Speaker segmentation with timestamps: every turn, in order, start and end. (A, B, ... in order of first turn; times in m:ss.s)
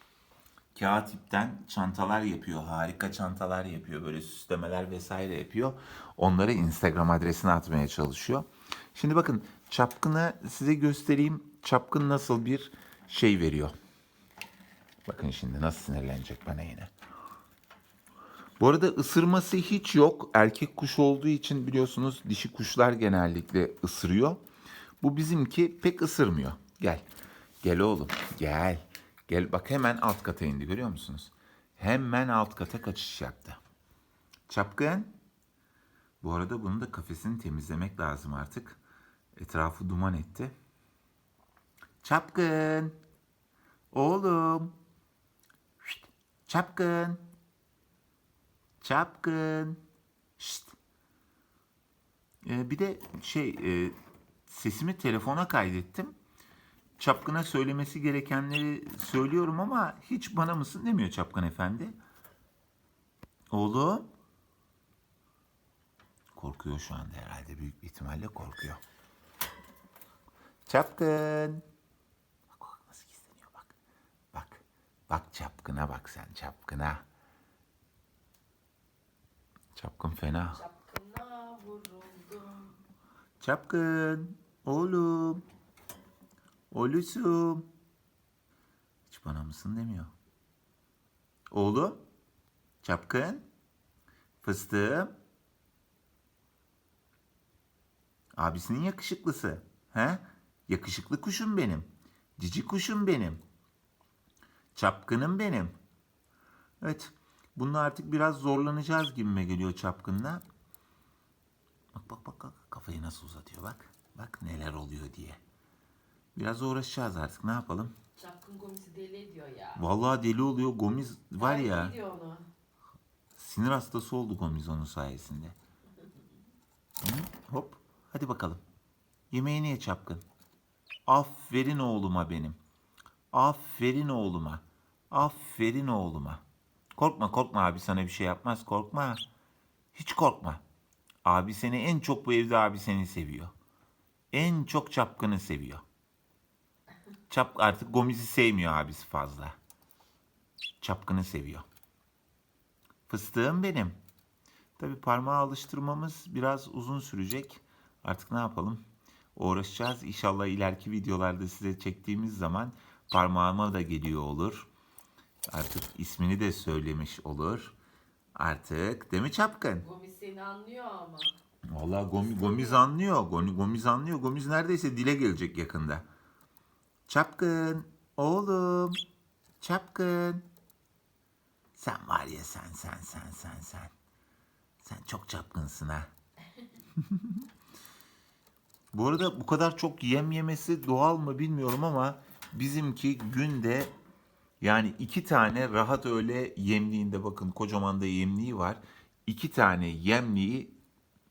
0:00.7-0:13.7 A
0:15.0-0:16.9 A
0:18.6-0:24.4 A
0:25.0-0:27.0 A
0:27.6-0:33.6 A
0:34.5-0:35.1 A
0:36.2-0:38.8 A
0:39.4-0:40.5 A
0:42.0-0:43.0 A
0:43.9-0:44.7 A
0:45.8-0:47.2 A
0:48.8-0:49.8 A
0:50.4-0:50.8 A
0:52.4-0:53.9 A
0:54.5-0:56.1 A
0:57.0-1:01.9 A
1:03.5-1:04.1 A
1:06.3-1:08.8 A
1:10.6-1:11.6 A
1:12.5-1:13.7 A
1:14.3-1:17.0 A
1:19.8-1:20.6 A
1:20.5-1:22.8 B
1:23.4-1:25.4 A
1:26.7-1:27.6 A
1:29.1-1:30.1 A
1:31.5-1:32.0 A
1:32.8-1:33.4 A
1:34.4-1:35.1 A
1:38.4-1:43.4 A
1:44.7-1:45.7 A
1:46.8-1:50.4 A
1:51.9-1:55.4 A
1:56.3-1:57.9 A
1:58.2-1:59.8 B
1:59.8-2:02.0 A
2:01.4-2:02.5 B
2:03.4-2:05.6 A
2:07.0-2:08.6 A
2:09.3-2:10.2 A
2:11.1-2:12.6 A
2:13.3-2:16.4 A
2:17.0-2:19.2 A
2:19.9-2:20.6 A
2:21.2-2:23.5 A
2:24.3-2:25.8 A
2:27.3-2:29.6 A
2:30.8-2:31.6 A
2:33.1-2:34.0 A
2:34.8-2:38.8 A
2:39.4-2:44.7 A
2:45.5-2:47.7 A
2:48.3-2:49.8 A
2:49.8-2:51.3 B
2:51.7-2:56.0 A
2:52.3-2:52.8 B
2:57.1-2:59.0 A
2:59.6-3:00.4 A
3:01.7-3:03.9 A
3:04.8-3:06.1 A
3:07.0-3:07.4 A
3:08.9-3:13.9 A
3:14.6-3:20.7 A